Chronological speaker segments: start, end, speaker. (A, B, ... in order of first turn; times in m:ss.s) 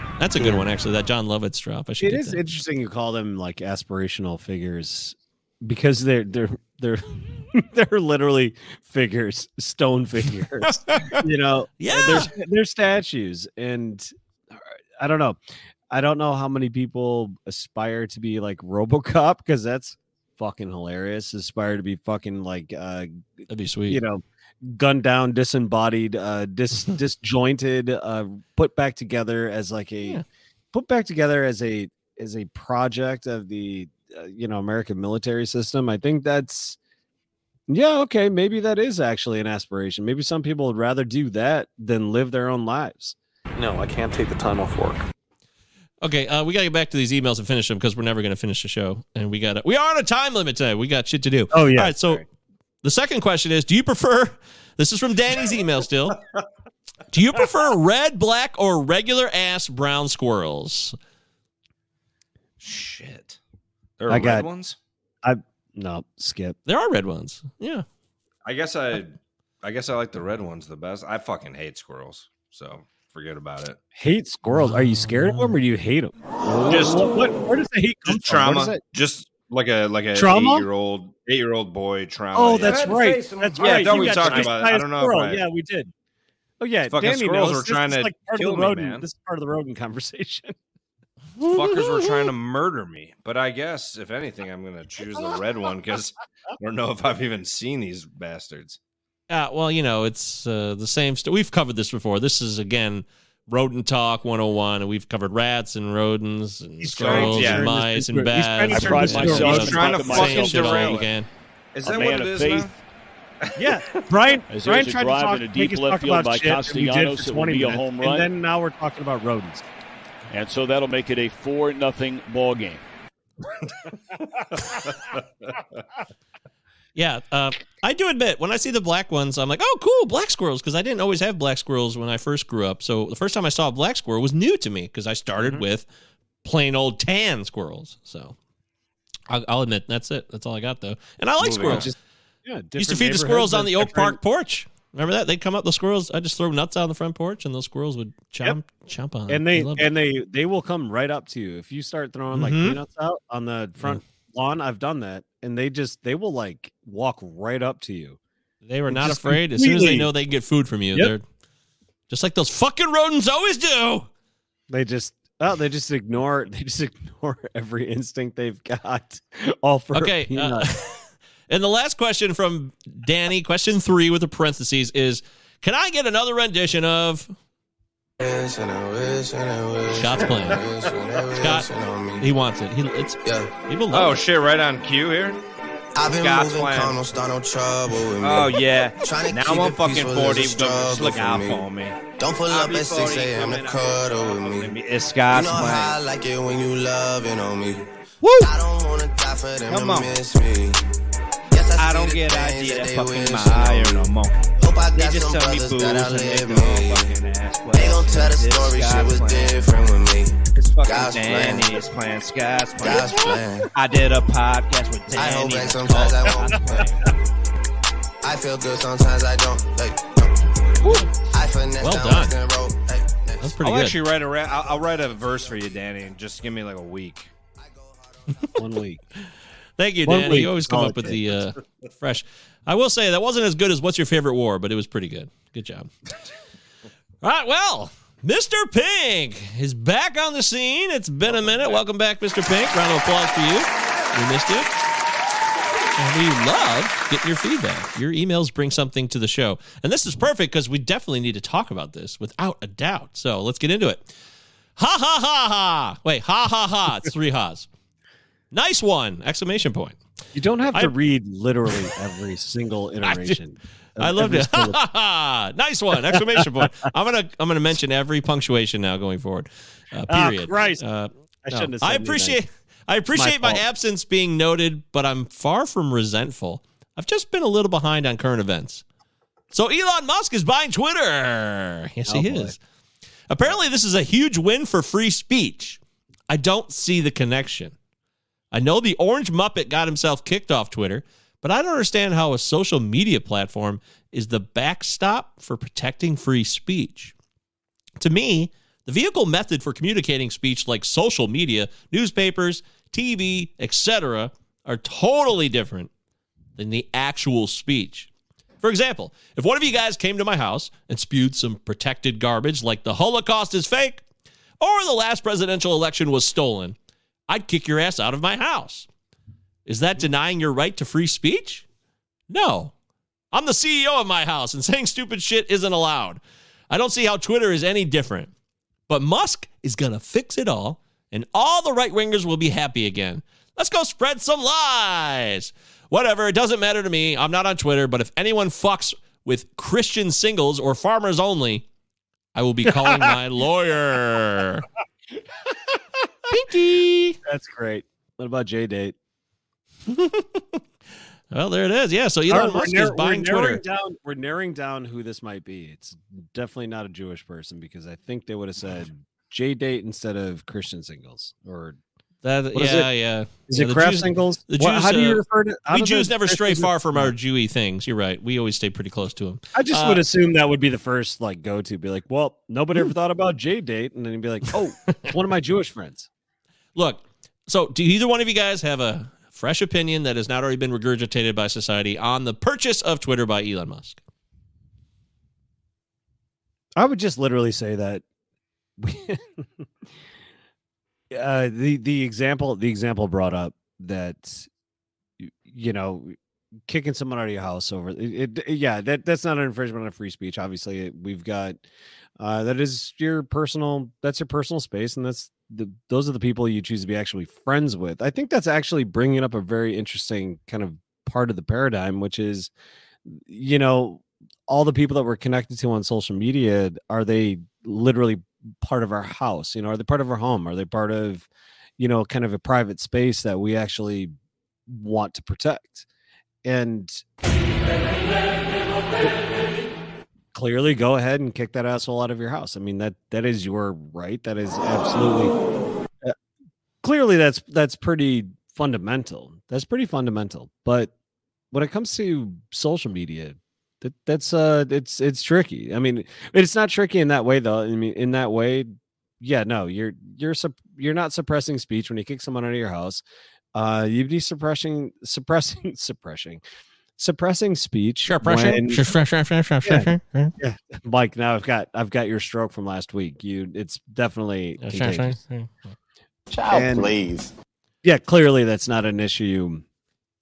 0:00.2-0:02.4 A
0:00.4-0:00.6 B
0:02.0-0:15.4 B
0:10.7-0:11.2 A
0:11.8-0:12.3 A
0:15.9-0:36.8 B
0:23.5-0:24.0 A
0:37.7-0:43.2 B
0:43.6-0:45.0 C
0:46.0-0:52.2 A
0:51.5-0:51.9 B
0:52.8-0:56.2 A
0:57.1-1:01.0 A
1:02.6-1:03.4 D
1:04.0-1:04.8 D
1:04.1-1:04.5 B
1:05.2-1:06.6 B
1:06.6-1:07.8 A
1:08.4-1:13.8 D
1:14.0-1:18.8 B
1:14.6-1:15.5 A
1:16.6-1:17.2 D
1:18.1-1:22.9 D
1:20.1-1:20.7 B
1:22.3-1:25.9 B
1:22.6-1:24.5 E
1:23.6-1:25.4 D
1:26.6-1:30.5 B
1:26.9-1:29.0 D
1:31.4-1:32.1 A
1:31.4-1:38.8 D
1:39.3-1:51.3 A
1:46.8-1:50.8 B
1:46.9-1:47.7 D
1:48.7-1:50.3 F
1:49.3-1:50.0 C
1:49.4-1:51.1 D
1:51.7-1:52.7 D
1:51.9-1:52.7 F
1:53.5-1:54.0 D
1:53.6-1:59.6 B
1:54.5-1:58.2 F
2:00.3-2:02.8 F
2:07.0-2:15.9 A
2:16.4-2:18.4 A
2:19.3-2:21.9 A
2:21.4-2:21.9 D
2:21.6-2:24.2 B
2:22.8-2:29.9 A
2:29.3-2:38.2 B
2:32.3-2:32.8 A
2:38.6-2:41.2 A
2:38.9-2:40.1 B
2:42.1-2:44.1 A
2:44.7-2:50.7 B
2:49.9-2:57.3 A
2:58.2-3:02.3 G
2:59.9-3:00.6 A
3:01.4-3:01.7 A
3:02.2-3:04.2 A
3:03.2-3:03.5 G
3:03.9-3:05.4 D
3:06.0-3:14.8 G
3:06.0-3:07.0 D
3:08.2-3:16.0 D
3:15.3-3:17.8 G
3:18.2-3:18.5 A
3:18.4-3:20.8 G
3:19.7-3:20.2 D
3:21.5-3:27.2 G
3:21.7-3:29.7 D
3:27.7-3:31.8 G
3:30.6-3:37.0 D
3:32.8-3:33.7 G
3:35.1-3:36.9 G
3:38.2-3:43.6 G
3:40.8-3:41.1 A
3:41.8-3:42.4 A
3:43.4-3:44.0 A
3:43.6-3:47.3 D
3:44.4-3:46.2 G
3:47.5-3:48.6 G
3:48.5-3:49.0 B
3:49.8-3:55.9 A
3:50.0-3:51.4 B
3:57.2-4:04.7 A
4:01.3-4:01.8 D
4:06.0-4:14.1 A
4:14.8-4:17.7 A
4:18.5-4:20.0 A
4:20.3-4:24.8 B
4:23.0-4:23.4 A
4:24.0-4:38.8 A
4:26.0-4:26.7 B
4:30.1-4:30.8 B
4:31.4-4:32.4 B
4:33.1-4:33.6 B
4:39.5-4:42.6 A
4:42.1-4:42.5 B
4:43.3-4:47.7 A
4:48.5-4:57.1 A
4:58.0-5:05.9 A
5:06.6-5:08.1 A
5:08.6-5:14.0 A
5:14.6-5:16.8 A
5:17.3-5:18.9 A
5:19.6-5:21.6 A
5:22.3-5:22.7 A
5:23.3-5:28.3 A
5:28.9-5:41.6 A
5:42.3-5:44.6 A
5:42.7-5:43.2 B
5:46.3-5:47.2 A
5:47.2-5:49.0 B
5:49.9-5:50.6 A
5:51.3-5:53.6 A
5:52.3-6:01.8 B
6:02.2-6:10.0 A
6:02.5-6:02.9 B
6:03.5-6:07.1 B
6:09.5-6:16.1 B
6:16.8-6:24.0 A
6:26.8-6:28.0 B
6:28.8-6:29.5 B
6:31.1-6:34.5 B
6:35.2-6:36.2 B
6:36.7-6:41.6 B
6:42.2-6:52.5 B
6:53.0-7:04.1 B
7:04.7-7:05.8 B
7:06.4-7:07.0 B
7:10.3-7:15.3 B
7:16.8-7:20.9 B
7:21.5-7:33.0 B
7:33.5-7:36.4 B
7:37.0-7:38.9 B
7:38.0-7:40.3 A
7:39.6-7:45.2 B
7:44.6-7:45.7 A
7:46.3-7:47.3 E
7:46.5-7:46.9 B
7:47.8-7:49.6 B